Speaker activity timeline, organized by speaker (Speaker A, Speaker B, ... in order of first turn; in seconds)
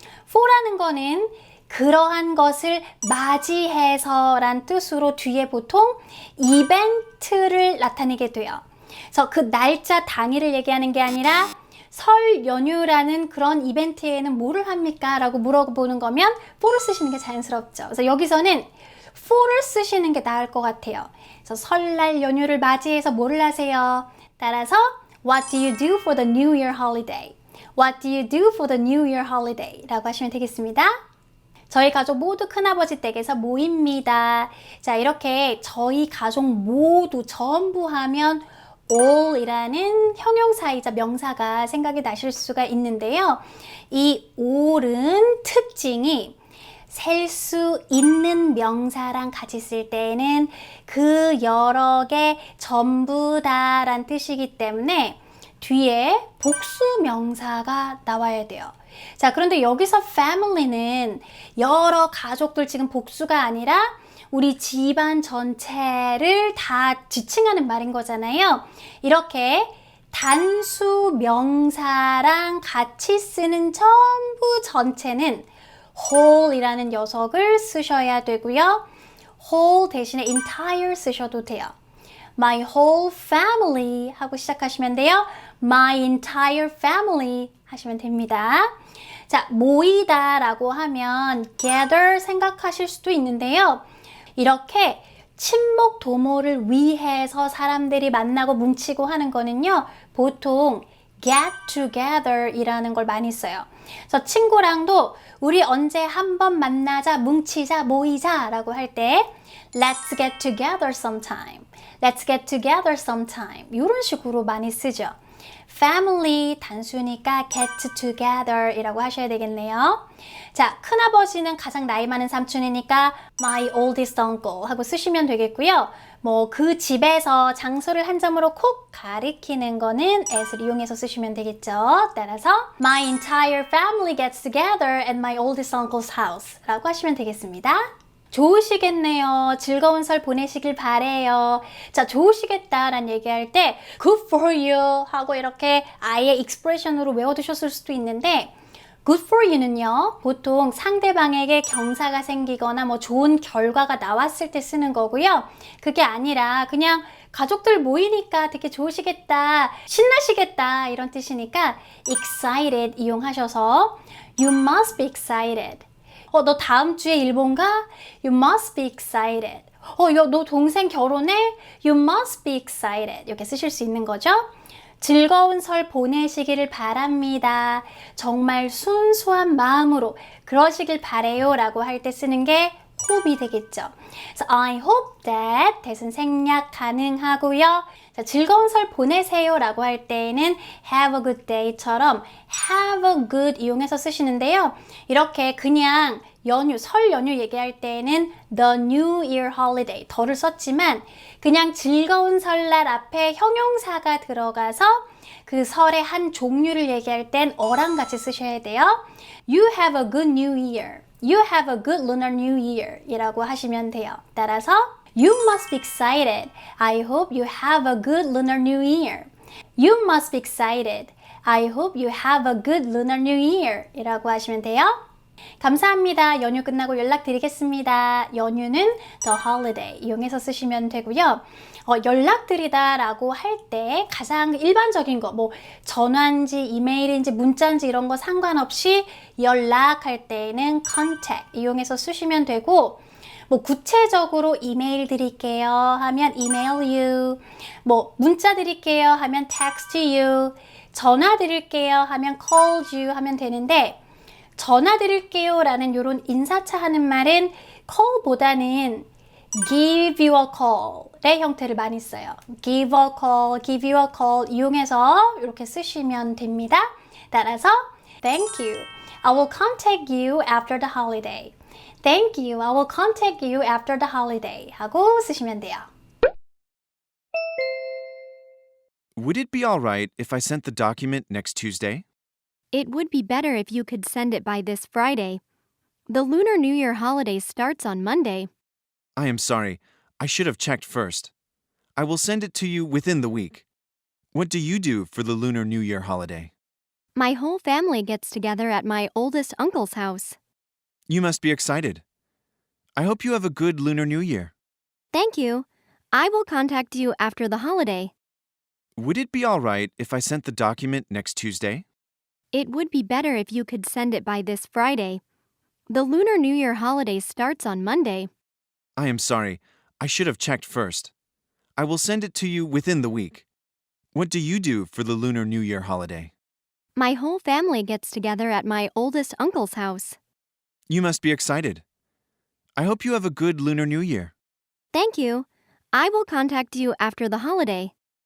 Speaker A: 0.3-30.9, 31.7-46.3, 46.9-78.8, 79.4-81.7, 82.4-88.7, 89.3-93.8, 94.3-115.2, 115.7-148.5, 149.0-174.5, 175.0-224.9, 225.6-254.0, 254.6-259.1, 259.6-275.9
Speaker B: 279.1-282.0, 289.1-291.3, 291.9-293.6, 294.3-296.5, 301.1-302.0, 302.9-304.5, 309.0-311.8, 318.9-321.1, 321.8-323.4, 324.1-326.3, 330.9-331.8, 332.8-334.3
Speaker C: 282.7-285.4, 286.1-288.5, 297.1-300.4, 305.1-308.1, 312.5-315.2, 315.9-318.3, 326.9-330.2, 334.9-337.9